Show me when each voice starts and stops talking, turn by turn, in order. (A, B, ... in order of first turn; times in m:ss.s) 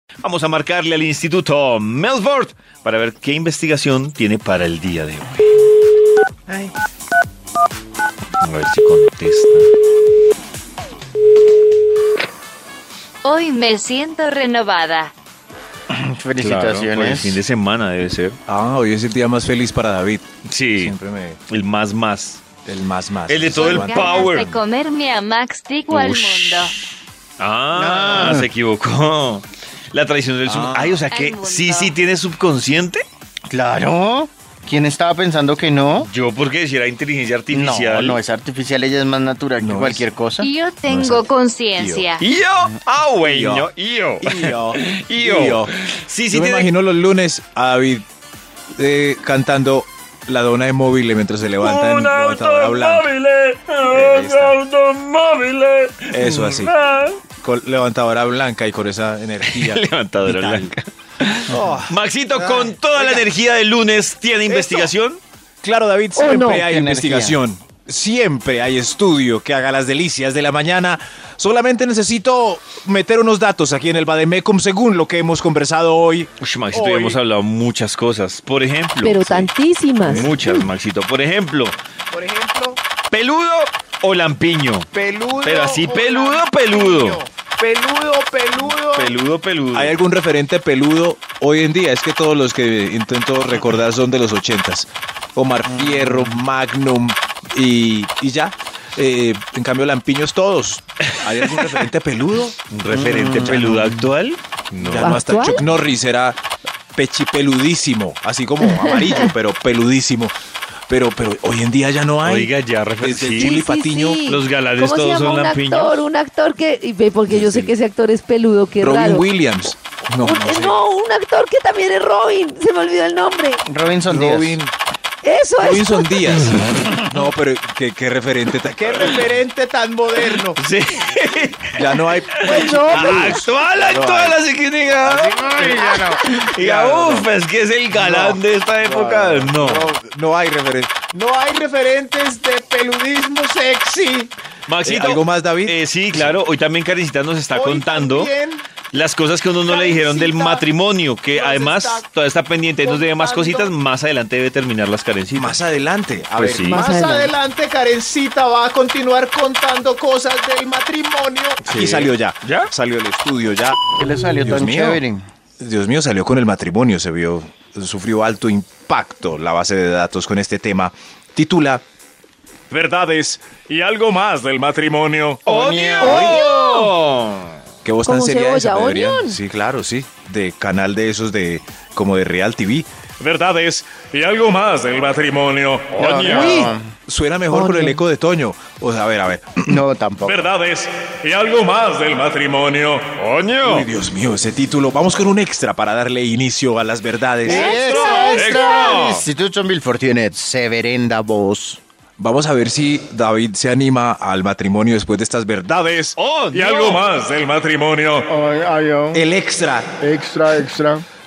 0:00.2-0:05.4 A
0:08.4-0:09.7 A
0:13.2-0:15.1 B
0:15.9-0:17.4 C
0:16.4-0:18.4 A
0:18.5-0:20.3 D
0:20.5-0:20.9 A
0:20.8-0:21.4 D
0:21.5-0:22.4 A
0:22.6-0:24.5 D
0:23.3-0:24.6 A
0:23.5-0:26.7 B
0:25.9-0:26.7 A
0:27.4-0:33.0 A
0:27.7-0:28.5 C
0:30.5-0:31.1 D
0:31.1-0:32.0 B
0:33.5-0:36.1 C
0:36.0-0:38.2 A
0:37.5-0:40.5 C
0:39.6-0:40.1 D
0:40.4-0:42.2 B
0:40.9-0:42.1 D
0:42.2-0:46.7 A
0:43.2-0:43.7 D
0:44.2-0:45.7 D
0:46.3-0:48.0 D
0:48.8-0:53.1 D
0:51.6-0:57.2 A
0:53.9-0:54.6 D
0:56.1-0:56.7 D
0:57.4-1:00.7 D
0:59.4-1:05.2 A
1:01.5-1:03.3 D
1:04.5-1:04.9 D
1:05.6-1:17.2 D
1:06.2-1:06.6 E
1:06.3-1:07.4 C
1:16.4-1:21.8 A
1:19.0-1:20.7 E
1:20.1-1:20.4 D
1:22.1-1:22.8 D
1:23.1-1:24.9 A
1:24.9-1:29.1 D
1:25.4-1:27.2 A
1:28.7-1:30.0 A
1:29.7-1:42.6 D
1:35.8-1:36.4 C
1:41.5-1:41.8 A
1:42.7-1:45.2 A
1:42.9-1:44.0 C
1:44.8-1:46.4 D
1:45.0-1:45.6 E
1:47.0-1:50.4 D
1:48.6-1:49.3 E
1:50.9-1:54.2 D
1:52.2-1:53.6 A
1:53.4-1:59.3 E
1:54.3-1:56.0 A
1:57.3-1:57.7 D
1:58.8-2:00.8 D
2:00.2-2:03.6 E
2:03.7-2:04.6 C
2:04.1-2:04.7 D
2:05.2-2:06.6 E
2:05.6-2:10.6 D
2:10.6-2:11.8 A
2:11.7-2:14.4 D
2:12.4-2:19.9 A
2:15.0-2:17.3 D
2:17.9-2:24.3 D
2:24.7-2:28.3 A
2:24.8-2:26.4 D
2:27.5-2:28.6 D
2:28.9-2:35.6 A
2:29.7-2:30.7 D
2:31.3-2:32.0 D
2:32.8-2:33.7 D
2:35.3-2:45.0 D
2:36.4-2:36.8 A
2:36.7-2:37.3 E
2:41.6-2:42.7 A
2:43.9-2:45.3 C
2:45.6-2:51.8 D
2:52.7-2:56.4 D
2:55.5-2:56.3 C
2:55.5-2:57.6 A
2:56.1-2:56.9 E
2:57.8-3:18.5 D
2:58.0-2:59.4 E
3:05.9-3:06.9 C
3:05.9-3:06.7 A
3:07.5-3:08.0 E
3:09.7-3:10.5 C
3:13.2-3:13.9 A
3:17.4-3:21.8 C
3:17.5-3:19.0 E
3:18.2-3:19.3 A
3:22.2-3:28.3 D
3:26.2-3:27.0 A
3:28.3-3:29.2 C
3:29.1-3:29.9 D
3:30.0-3:31.1 C